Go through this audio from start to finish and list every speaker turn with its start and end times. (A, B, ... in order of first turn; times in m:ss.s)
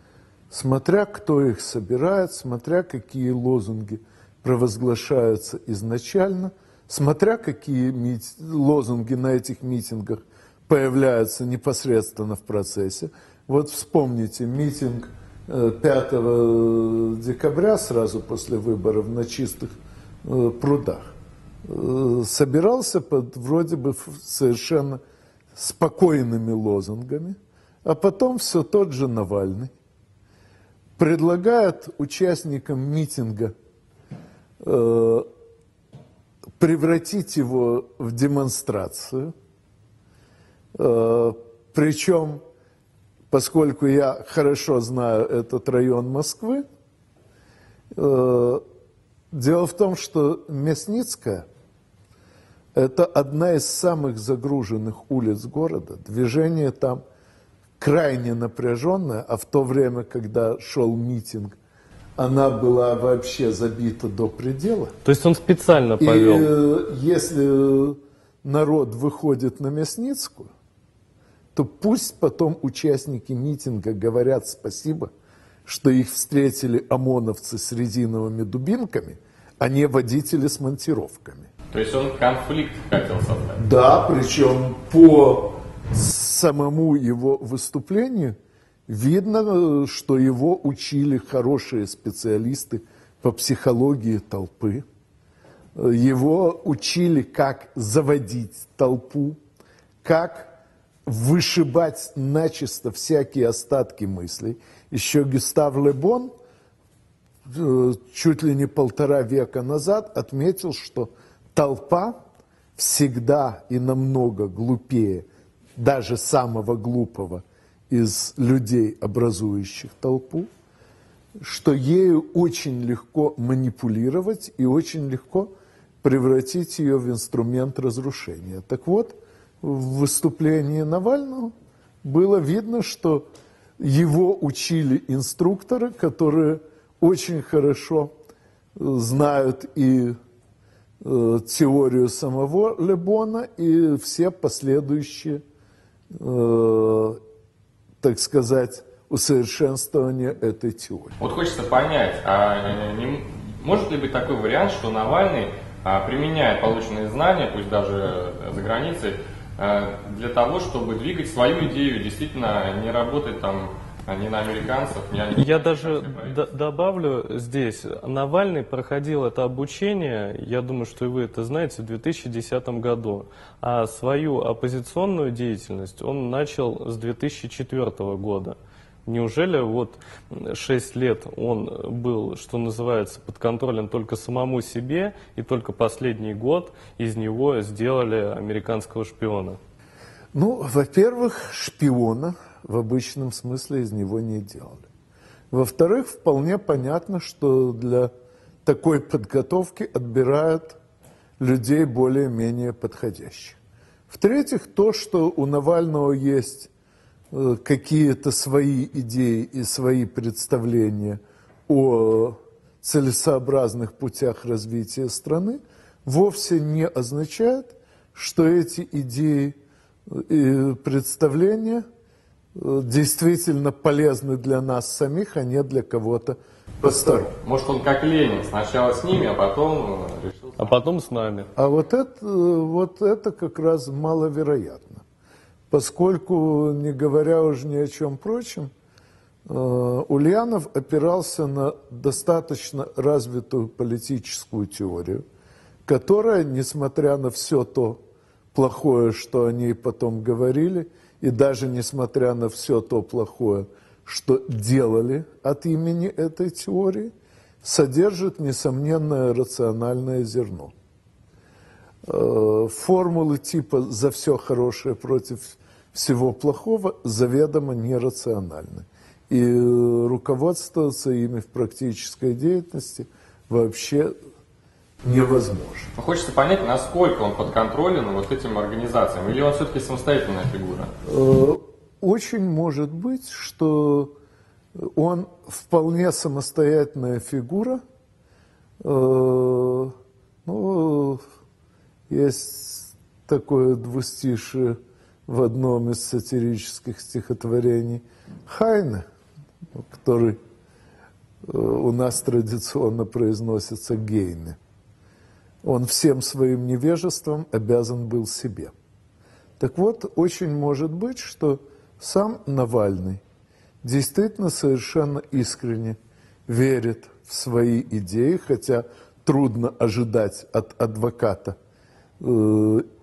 0:00.5-0:21.1 A
0:21.6-0:25.0 A
0:25.5-0:29.7 A
0:31.0-0:33.5 A
0:34.6-0:35.3 A
0:36.6-0:39.3 A
0:40.7-0:42.4 A
0:43.3-0:46.6 A
0:47.9-0:48.6 A
0:49.3-0:51.4 A
0:52.7-0:57.0 A
0:57.8-1:01.6 A
1:02.2-1:04.9 A
1:05.0-1:06.5 B
1:06.0-1:10.5 A
1:11.5-1:15.1 A
1:15.6-1:21.5 A
1:21.7-1:23.6 C
1:23.6-1:28.4 A
1:28.9-1:34.8 A
1:35.8-1:39.4 A
1:40.0-1:40.5 A
1:41.0-1:46.3 A
1:47.4-1:52.2 A
1:52.8-1:55.2 A
1:55.8-2:00.5 A
2:01.4-2:05.5 A
2:06.0-2:13.3 A
2:13.8-2:18.1 A
2:18.7-2:20.2 A
2:21.0-2:25.4 A
2:26.1-2:27.2 A
2:28.0-2:31.1 A
2:31.2-2:46.4 C
2:45.4-3:09.6 B
3:10.3-3:14.8 A
3:15.5-3:18.1 A
3:18.6-3:20.8 A
3:21.4-3:23.6 A
3:24.1-3:26.7 A
3:27.3-3:39.6 A
3:40.1-3:41.8 A
3:42.5-3:47.3 A
3:47.4-3:50.7 C
3:50.6-3:51.5 B
3:51.6-3:55.0 A
3:55.7-3:58.7 A
3:59.5-4:05.2 A
4:05.8-4:08.0 A
4:08.5-4:20.7 A
4:22.0-4:34.1 A
4:35.0-4:35.9 A
4:36.0-4:40.9 C
4:41.0-4:44.1 A
4:44.8-4:47.8 A
4:48.8-4:51.2 A
4:52.1-4:59.0 A
4:59.7-5:00.4 A
5:01.4-5:04.6 A
5:05.6-5:08.7 A
5:09.6-5:13.2 A
5:13.8-5:21.6 A
5:22.2-5:22.8 A